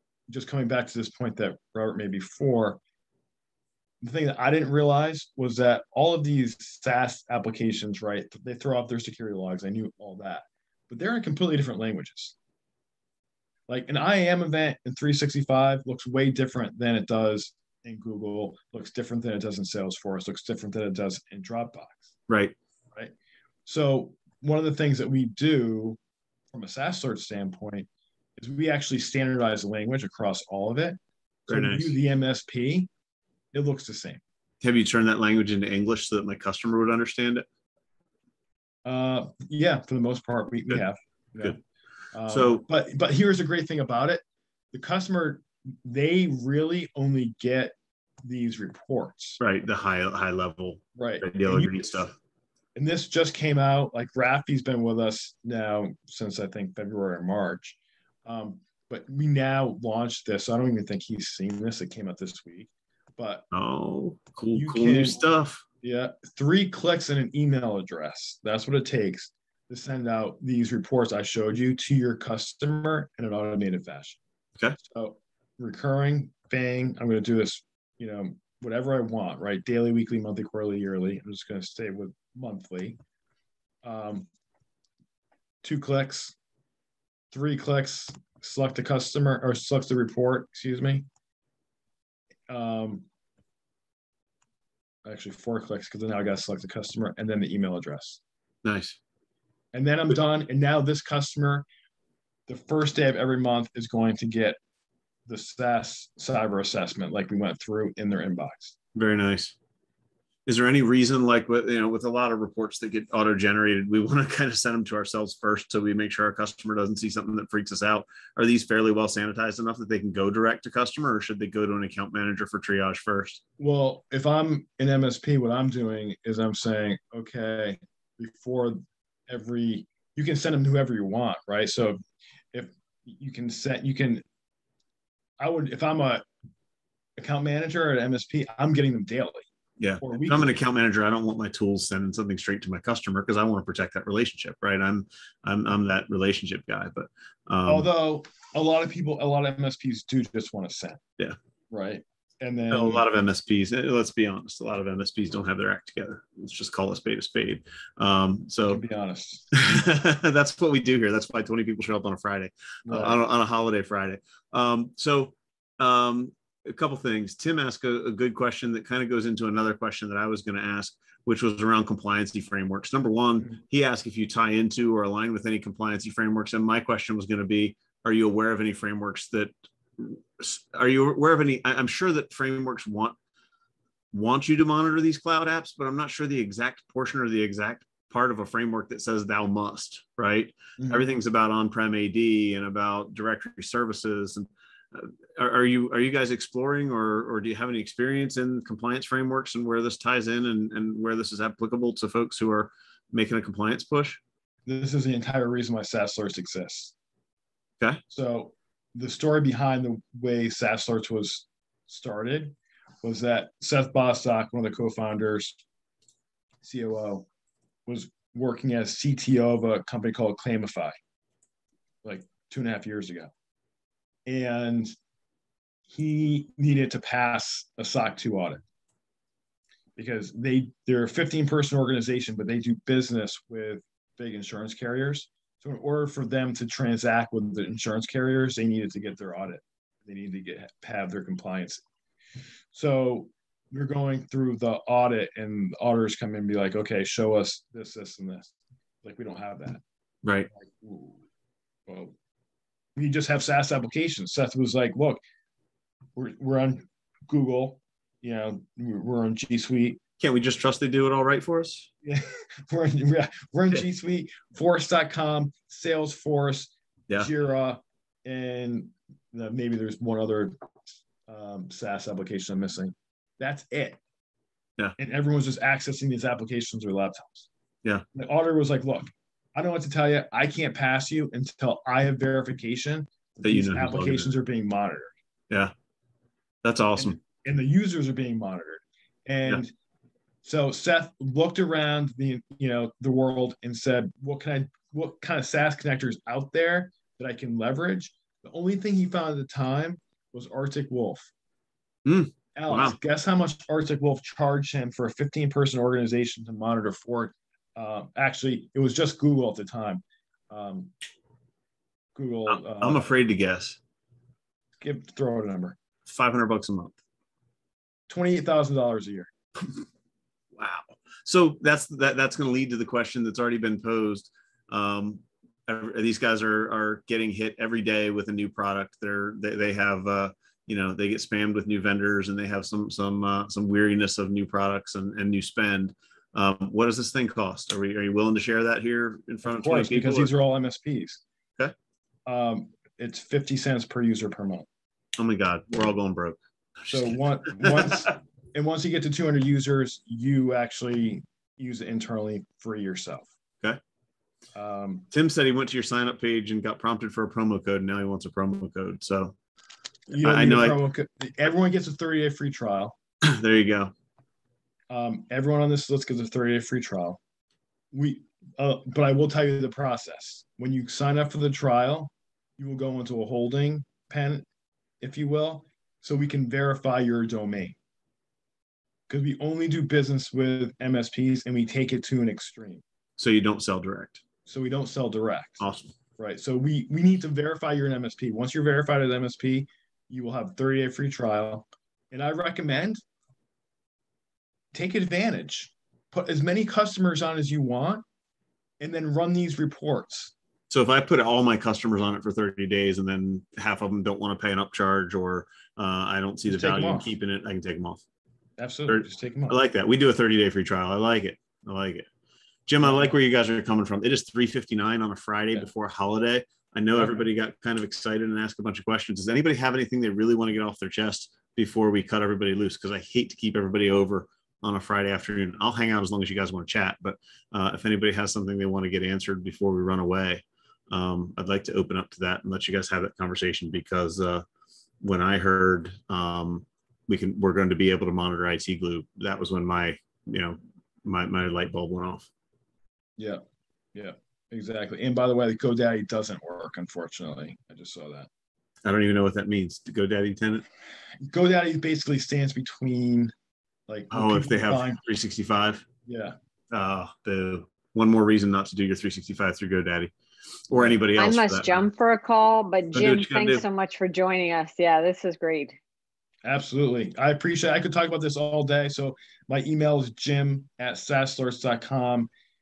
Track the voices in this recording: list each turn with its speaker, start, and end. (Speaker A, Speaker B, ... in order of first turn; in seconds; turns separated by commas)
Speaker A: 0.3-2.8, Speaker A: 4.0-12.3, Speaker A: 13.7-22.1, Speaker B: 22.3-22.5, Speaker A: 23.6-26.0, Speaker A: 26.5-32.9, Speaker B: 31.5-31.9, Speaker A: 33.5-34.2, Speaker B: 34.6-37.5, Speaker A: 38.8-41.6, Speaker A: 42.1-49.4, Speaker B: 42.3-42.6, Speaker B: 49.4-52.1, Speaker A: 51.0-52.0, Speaker A: 52.7-63.5, Speaker B: 63.5-65.6, Speaker A: 64.5-65.2, Speaker A: 65.8-74.2, Speaker A: 74.8-83.0, Speaker A: 83.8-84.3, Speaker A: 85.6-86.3, Speaker A: 87.3-91.1, Speaker A: 92.5-93.0, Speaker A: 95.0-98.2, Speaker B: 98.6-99.0, Speaker A: 99.7-101.7, Speaker A: 102.5-104.6, Speaker A: 105.3-108.7, Speaker B: 108.9-109.5, Speaker B: 110.5-123.4, Speaker A: 123.6-134.2, Speaker A: 135.4-136.3, Speaker A: 137.2-139.4, Speaker B: 139.8-147.9, Speaker A: 140.0-140.5, Speaker A: 147.7-151.0, Speaker A: 151.7-153.0, Speaker B: 152.7-158.8, Speaker A: 158.7-159.5, Speaker B: 159.5-183.2, Speaker A: 162.8-163.2, Speaker B: 184.1-204.2, Speaker A: 190.8-191.1, Speaker A: 204.7-206.9, Speaker A: 208.1-215.6, Speaker A: 216.6-217.3, Speaker A: 217.8-221.0, Speaker A: 222.0-223.3, Speaker A: 224.3-224.9, Speaker A: 225.9-228.6, Speaker A: 229.9-241.8, Speaker A: 242.7-249.8, Speaker B: 250.2-250.5, Speaker A: 250.5-251.2, Speaker A: 251.9-252.1, Speaker A: 252.9-255.2, Speaker A: 256.1-260.0, Speaker B: 260.2-261.9, Speaker A: 262.0-274.0, Speaker A: 275.0-277.5, Speaker A: 278.1-285.1, Speaker B: 283.4-284.3, Speaker B: 286.6-287.2, Speaker A: 287.0-289.7, Speaker A: 290.4-301.3, Speaker B: 302.0-302.9, Speaker A: 302.5-310.9, Speaker A: 312.1-313.0, Speaker B: 312.5-313.8, Speaker A: 314.8-315.8, Speaker B: 316.0-317.0, Speaker A: 318.1-319.3, Speaker B: 320.6-340.3, Speaker A: 339.4-341.2, Speaker A: 342.2-344.7, Speaker B: 345.2-348.1, Speaker A: 346.9-353.3, Speaker A: 354.5-355.1, Speaker B: 355.1-359.4, Speaker A: 360.1-362.9, Speaker B: 360.2-360.8, Speaker B: 363.2-363.9, Speaker A: 364.9-367.2, Speaker A: 367.9-374.4, Speaker A: 375.0-377.8, Speaker A: 379.1-382.8, Speaker B: 383.2-384.2, Speaker A: 384.4-385.6, Speaker B: 385.6-385.9, Speaker A: 386.2-393.0, Speaker A: 394.7-398.0, Speaker A: 398.8-400.3, Speaker B: 400.7-408.0, Speaker A: 406.5-407.1, Speaker A: 408.6-409.6, Speaker B: 408.9-412.1, Speaker B: 412.7-434.4, Speaker A: 412.8-413.1, Speaker B: 435.0-442.3, Speaker A: 443.9-448.3, Speaker B: 448.8-450.6, Speaker A: 451.2-453.3, Speaker A: 453.9-455.0, Speaker B: 454.1-455.9, Speaker A: 456.1-456.3, Speaker B: 456.7-460.1, Speaker B: 460.7-461.8, Speaker A: 460.7-461.0, Speaker C: 461.1-465.8, Speaker B: 462.9-463.6, Speaker A: 466.4-472.3